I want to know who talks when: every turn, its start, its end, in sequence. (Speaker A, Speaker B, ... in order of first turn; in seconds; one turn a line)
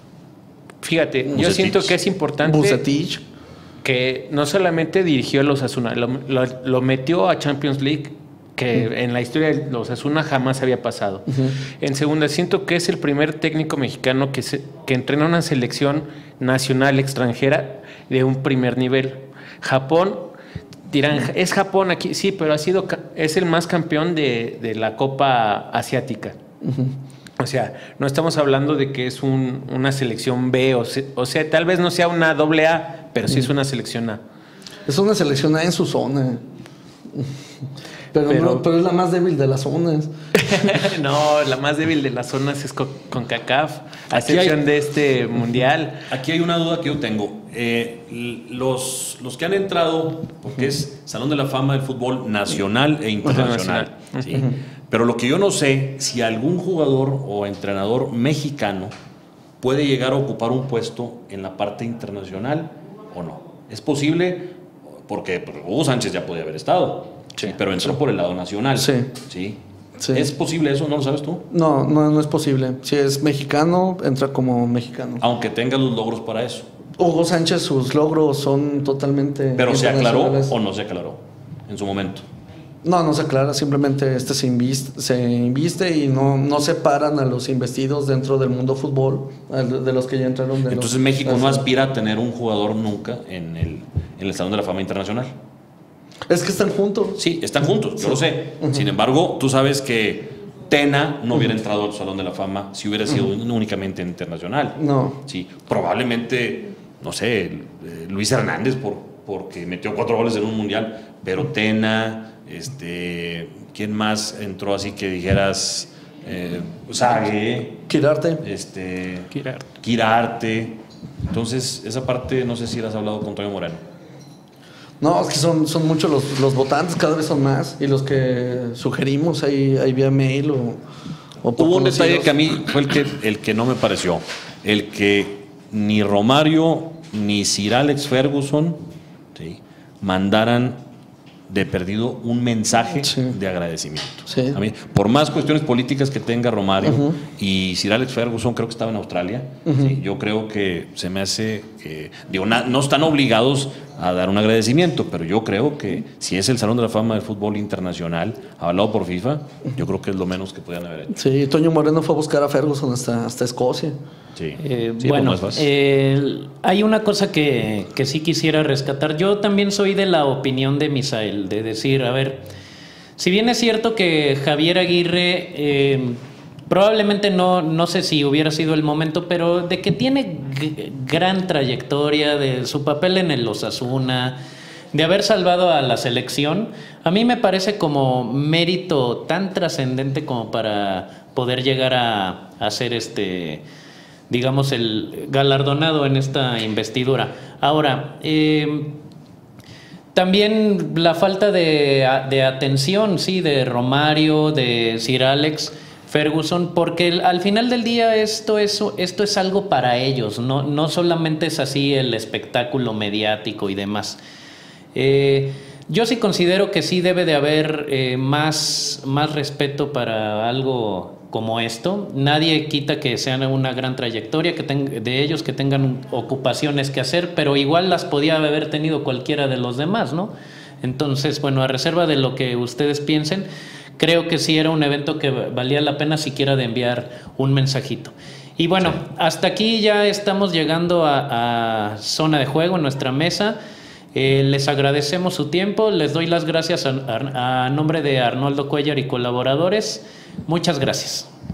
Speaker A: 0.8-2.8
Speaker B: 1.3-2.0
Speaker C: 2.4-3.2
Speaker A: 3.8-11.3
Speaker C: 11.3-11.6
Speaker A: 11.8-20.3
Speaker A: 20.9-26.4
Speaker C: 26.6-27.0
Speaker A: 27.4-34.2
Speaker C: 34.9-36.4
Speaker C: 38.1-40.1
Speaker A: 38.3-38.6
Speaker A: 40.4-46.0
Speaker B: 44.1-44.6
Speaker B: 46.1-58.9
Speaker A: 53.3-54.4
Speaker B: 59.6-64.5
Speaker B: 65.1-69.6
Speaker C: 67.4-67.9
Speaker C: 68.8-69.1
Speaker C: 70.0-70.3
Speaker B: 70.1-71.4
Speaker C: 71.5-75.2
Speaker B: 75.2-76.7
Speaker C: 77.0-80.5
Speaker B: 79.6-82.2
Speaker C: 82.8-91.7
Speaker B: 90.7-95.3
Speaker C: 96.3-97.2
Speaker B: 97.2-117.8
Speaker C: 98.0-98.8
Speaker C: 104.8-105.2
Speaker C: 117.9-118.4
Speaker B: 118.4-123.8
Speaker A: 119.3-119.7
Speaker C: 125.0-130.8
Speaker C: 131.4-132.3
Speaker B: 131.6-138.8
Speaker B: 139.3-140.8
Speaker B: 141.5-161.1
Speaker C: 143.1-143.3
Speaker C: 144.3-144.6
Speaker C: 146.8-147.2
Speaker C: 149.7-150.0
Speaker C: 161.1-163.9
Speaker B: 164.4-165.7
Speaker D: 164.6-172.5
Speaker D: 173.2-184.4
Speaker D: 184.9-193.6
Speaker D: 194.3-199.0
Speaker D: 200.1-214.2
Speaker D: 214.9-243.6
Speaker D: 244.1-251.3